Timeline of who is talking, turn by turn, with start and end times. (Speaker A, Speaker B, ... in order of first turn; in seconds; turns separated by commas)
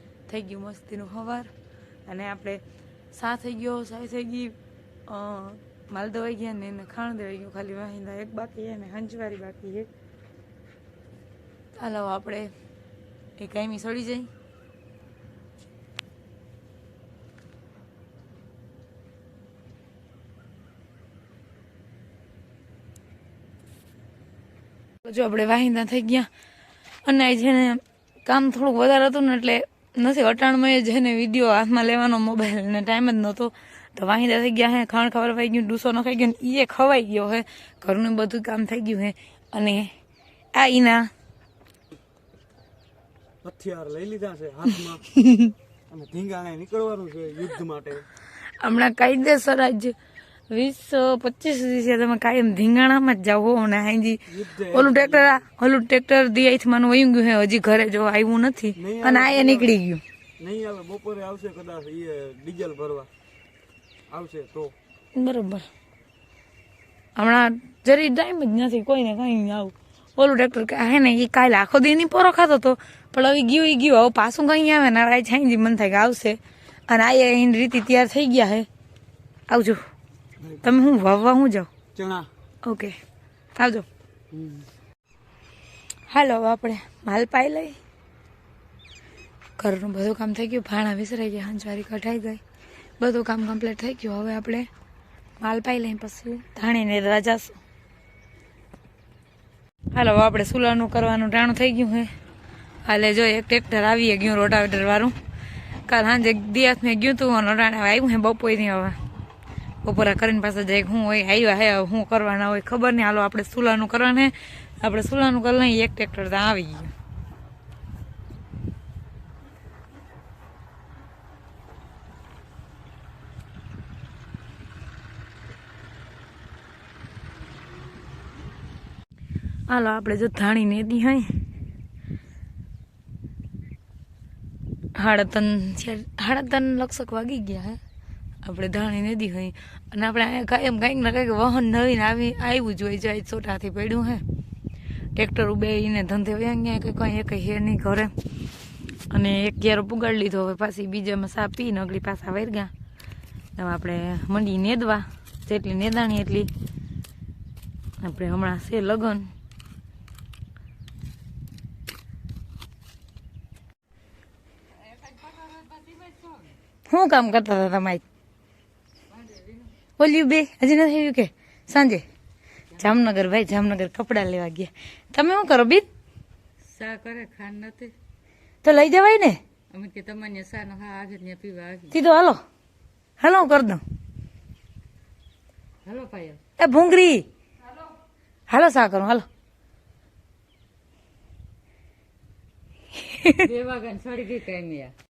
Speaker A: 0.3-1.5, Speaker A: 2.0-2.6, Speaker A: 3.1-9.9, Speaker A: 11.7-12.5, Speaker A: 13.4-14.3, Speaker A: 25.0-26.3, Speaker A: 27.0-39.9, Speaker A: 40.5-41.1, Speaker B: 43.4-45.1, Speaker A: 45.2-45.5, Speaker B: 45.9-48.0, Speaker A: 48.6-49.9, Speaker A: 50.5-60.0, Speaker B: 54.3-55.4, Speaker B: 58.7-59.7, Speaker B: 60.4-63.1, Speaker B: 64.1-64.7, Speaker A: 65.1-65.7, Speaker A: 67.2-78.7, Speaker A: 79.5-79.8, Speaker B: 80.4-80.7, Speaker A: 80.6-81.7, Speaker B: 81.9-82.3, Speaker A: 82.6-83.0, Speaker A: 83.6-83.8, Speaker B: 84.3-84.7, Speaker A: 86.1-87.8, Speaker A: 89.6-92.4, Speaker A: 93.0-94.7, Speaker A: 95.4-97.6, Speaker A: 99.9-102.1, Speaker A: 102.8-105.1, Speaker A: 105.9-109.0, Speaker A: 109.8-116.9, Speaker A: 129.7-131.4, Speaker A: 134.9-137.8, Speaker A: 138.4-144.2, Speaker A: 145.1-148.1, Speaker A: 149.1-152.7, Speaker A: 153.6-156.5, Speaker A: 158.0-159.3, Speaker C: 165.0-166.5, Speaker A: 166.9-168.0, Speaker C: 169.2-169.7, Speaker A: 170.0-172.0, Speaker A: 172.8-175.8, Speaker C: 176.7-177.9, Speaker A: 178.6-179.4, Speaker C: 179.7-181.9, Speaker A: 181.9-182.4, Speaker A: 183.2-183.8, Speaker C: 185.8-186.4, Speaker A: 186.6-187.3, Speaker A: 188.5-189.2, Speaker A: 193.0-193.5, Speaker C: 193.3-194.9